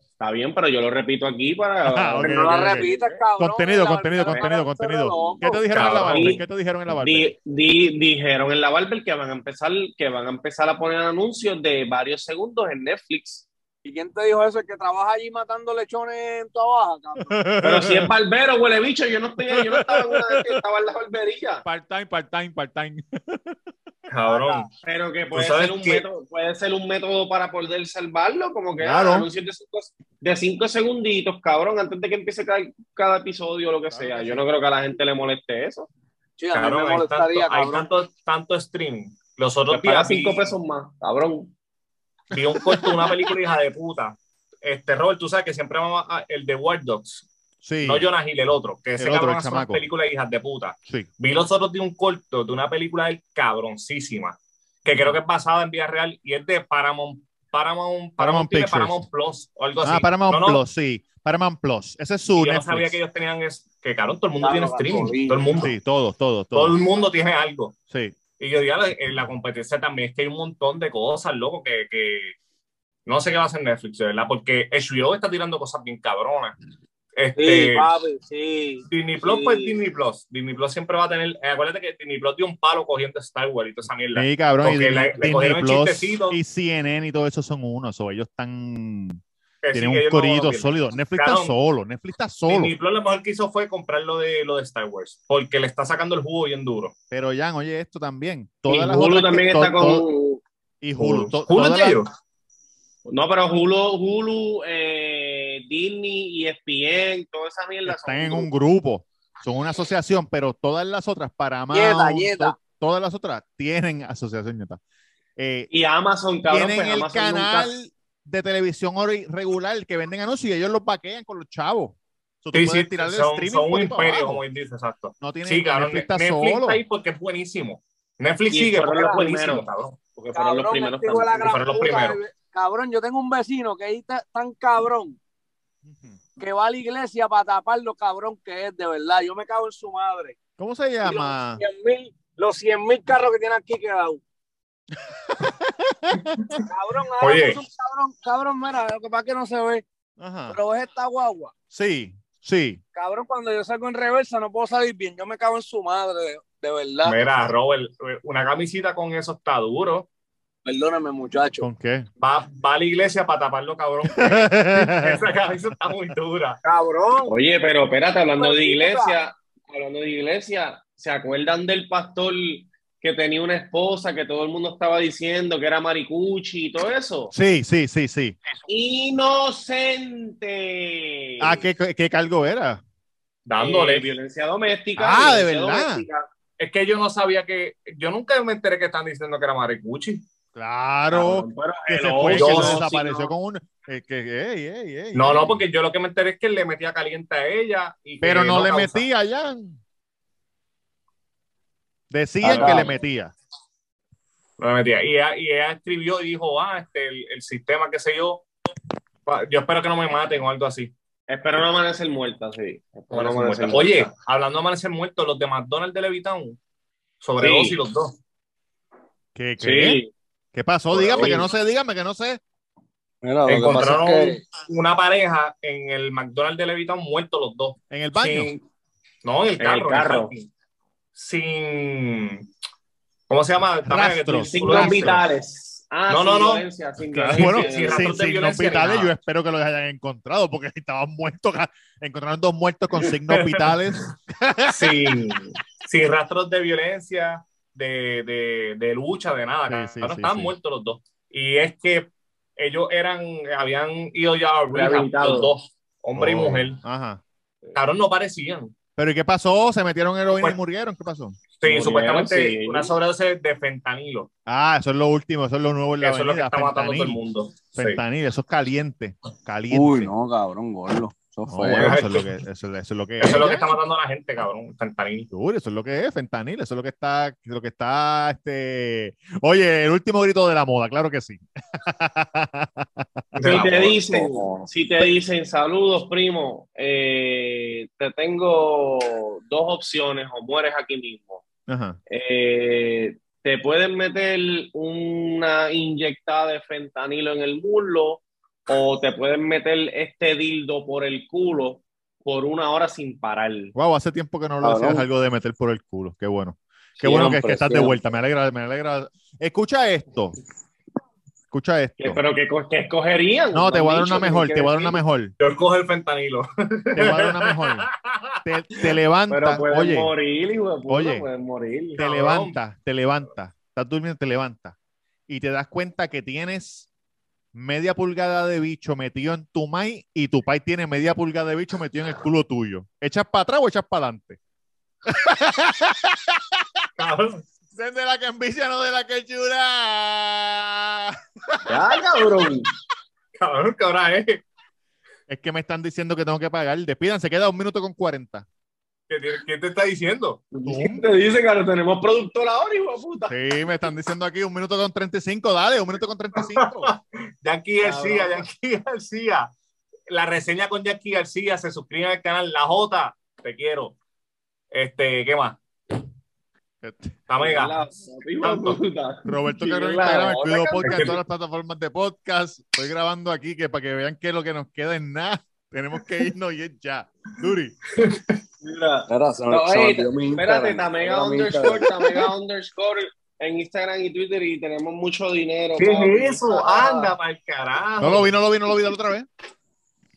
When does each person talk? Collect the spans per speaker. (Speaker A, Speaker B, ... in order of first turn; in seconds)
Speaker A: 0.2-3.2, 6.1-6.4, 6.9-13.5, 17.6-21.6, 24.8-35.9, 39.7-41.5, 98.7-100.4, 103.0-108.5, 115.7-117.7, 128.5-131.5, 167.3-177.3, 178.7-181.6, 183.6-186.3, 191.1-193.3, 202.4-202.9, 211.3-214.1, 217.4-217.8, 219.6-220.1, 221.1-221.5, 229.6-230.3, 234.4-238.1, 254.7-255.5, 261.6-262.9, 283.4-291.4, 292.1-303.7, 304.6-305.0, 307.0-308.0, 312.0-315.0, 319.3-322.0, 341.6-342.7, 350.5-353.3, 357.8-358.4, 367.4-371.1, 378.6-387.1
Speaker B: 1.8-7.3, 17.2-18.1, 19.5-20.6, 21.6-23.6, 28.8-29.3, 33.9-34.4, 47.6-48.1, 49.0-49.8, 58.2-59.0, 59.8-63.0, 65.5-66.8, 67.9-68.2, 84.1-89.2, 89.7-92.7, 97.1-100.0, 100.8-102.0, 107.8-114.8, 115.4-115.7, 116.5-124.4, 125.2-126.8, 135.8-136.2, 140.6-141.6, 145.1-146.6, 150.2-150.6, 151.7-152.8, 161.6-162.1, 164.1-165.3, 177.3-178.4, 181.4-182.8, 185.0-186.1, 190.5-195.6, 198.2-199.8, 202.1-203.3, 219.3-220.0, 220.5-222.4, 227.9-228.5, 233.9-235.2, 237.1-245.2, 249.7-250.5, 256.1-257.2, 259.0-261.4, 264.5-267.2, 267.7-270.1, 271.5-273.7, 275.3-283.2, 291.7-292.0, 303.7-310.4, 311.5-312.2, 313.5-315.3, 316.9-317.9, 318.4-320.1, 320.9-321.2, 322.0-324.8, 325.3-326.9, 327.5-334.4, 335.1-336.8, 337.7-341.8, 345.3-348.4, 350.6-351.1, 353.3-356.9, 366.8-367.2, 369.2-377.8, 388.0-389.3
Speaker C: 2.2-5.6, 13.8-17.4, 24.2-24.6, 36.4-37.9, 64.4-65.7, 77.3-79.8, 111.7-112.5, 130.3-135.2, 136.4-140.3, 141.0-144.2, 146.7-149.8, 150.5-151.5, 152.9-157.2, 160.6-161.7, 166.6-167.3, 168.4-169.2, 223.2-224.3, 271.3-271.9
Speaker D: 5.7-6.4, 24.1-24.7, 25.3-26.0, 36.5-40.5, 42.3-47.3, 47.8-60.6, 62.3-65.7, 66.5-67.7, 68.4-72.3, 73.0-76.5, 77.2-77.9, 78.9-86.4, 89.6-91.5, 92.5-96.9, 101.0-102.1, 122.5-130.0, 131.4-132.2, 146.4-146.6, 147.2-147.6, 157.0-160.1, 162.2-166.6, 183.4-184.1, 186.6-190.2, 192.3-192.8, 195.1-199.1, 202.5-202.9, 204.6-208.4, 209.2-210.9, 213.1-216.6, 217.2-218.1, 220.9-221.5, 223.4-228.6, 229.2-230.5, 231.1-232.5, 233.3-235.2, 236.1-236.7, 237.3-239.1, 243.1-244.0, 244.7-256.8, 257.7-258.7, 261.6-264.3, 266.0-268.0, 271.7-272.3, 273.2-275.3, 283.3-284.4, 315.4-318.8, 321.9-322.6, 337.0-337.4, 343.4-344.4, 349.1-350.5, 356.4-359.5, 360.1-363.9, 364.7-365.6, 367.3-367.8, 368.4-368.8, 370.8-371.1, 377.9-378.4, 385.8-388.3
Speaker E: 223.2-224.4, 269.7-272.0, 379.1-382.0